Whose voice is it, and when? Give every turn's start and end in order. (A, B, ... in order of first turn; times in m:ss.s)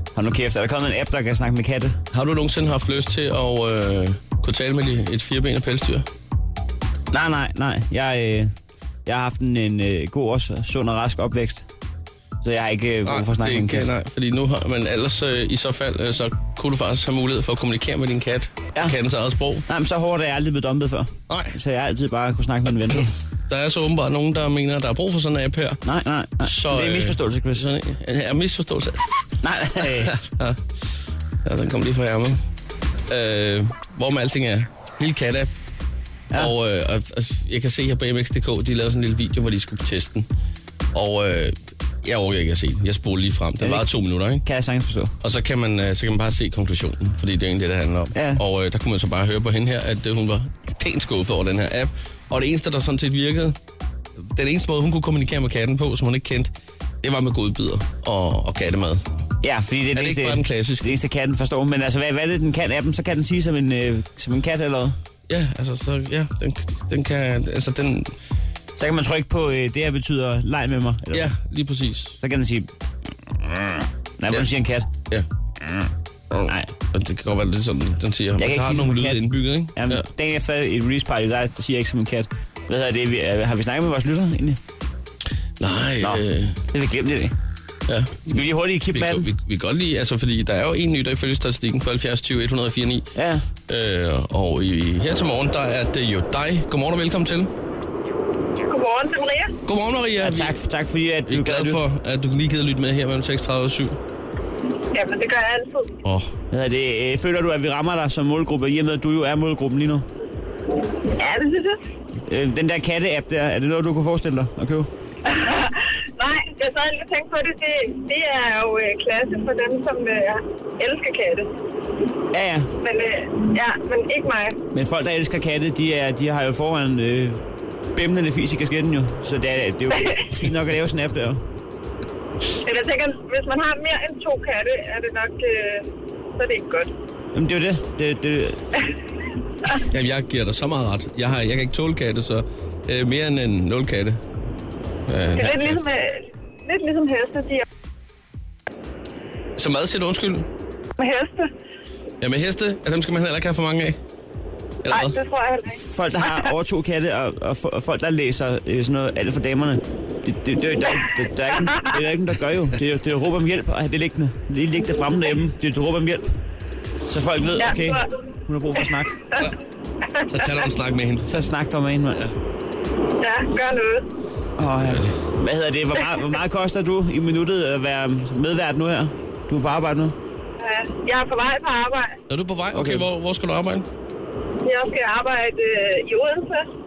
0:00.2-0:02.0 A
0:02.1-0:06.1 B
0:07.1-0:08.5 A
0:09.1-0:11.7 A
0:12.4-0:13.9 A
0:13.1-0:19.7 B
0:19.7-0:23.1 A
0:21.3-0:21.6 B
0:23.5-0:25.8 B
0:25.8-0:27.7 A
0:26.4-0:29.1 B
0:29.4-0:30.2 A
0:30.0-0:30.6 B
0:31.4-0:32.4 B
0:33.1-0:35.5 B
0:36.4-0:40.3 B
0:40.9-0:44.4 B
0:43.6-0:45.2 A
0:45.2-0:53.6 B
0:48.2-0:48.4 A
0:54.2-0:56.5 B
0:57.0-0:59.1 B
0:59.4-1:05.0 A
1:00.0-1:00.9 B
1:05.3-1:08.1 B
1:08.8-1:11.3 A
1:11.1-1:12.2 B
1:12.2-1:12.7 A
1:13.4-1:14.9 A
1:15.6-1:15.9 A
1:16.3-1:20.1 B
1:16.5-1:16.7 A
1:18.4-1:24.6 A
1:25.6-1:26.6 B
1:26.0-1:27.3 A
1:27.9-1:28.2 B
1:28.3-1:29.3 A
1:28.9-1:33.1 B
1:33.2-1:33.4 A
1:33.7-1:37.5 B
1:38.6-1:39.6 C
1:39.7-1:40.5 B
1:40.2-1:41.8 A
1:41.3-1:44.0 B
1:44.9-1:45.9 C
1:46.0-1:46.3 B
1:46.5-1:50.1 A
1:51.1-1:51.8 C
1:52.3-1:54.9 A
1:55.2-2:01.5 C
2:02.3-2:02.7 A
2:02.8-2:04.6 C
2:04.7-2:07.4 A
2:08.0-2:11.4 A
2:09.9-2:10.2 C
2:12.6-2:16.9 C
2:17.3-2:18.6 A
2:19.8-2:24.2 B
2:25.1-2:25.8 B
2:25.4-2:27.6 C
2:29.6-2:30.5 B
2:31.0-2:31.5 C
2:32.2-2:34.0 B
2:34.8-2:35.2 B
2:34.9-2:35.8 C
2:35.8-2:46.4 A
2:41.5-2:41.9 C
2:47.1-2:49.2 A
2:47.6-2:48.1 C
2:50.3-2:50.7 C
2:50.3-2:51.3 B
2:51.2-2:52.2 A
2:53.2-2:54.1 C
2:54.6-3:00.2 A
2:54.9-2:55.1 B
3:00.6-3:02.1 C
3:02.3-3:03.9 B
3:02.7-3:03.1 A
3:04.6-3:06.7 C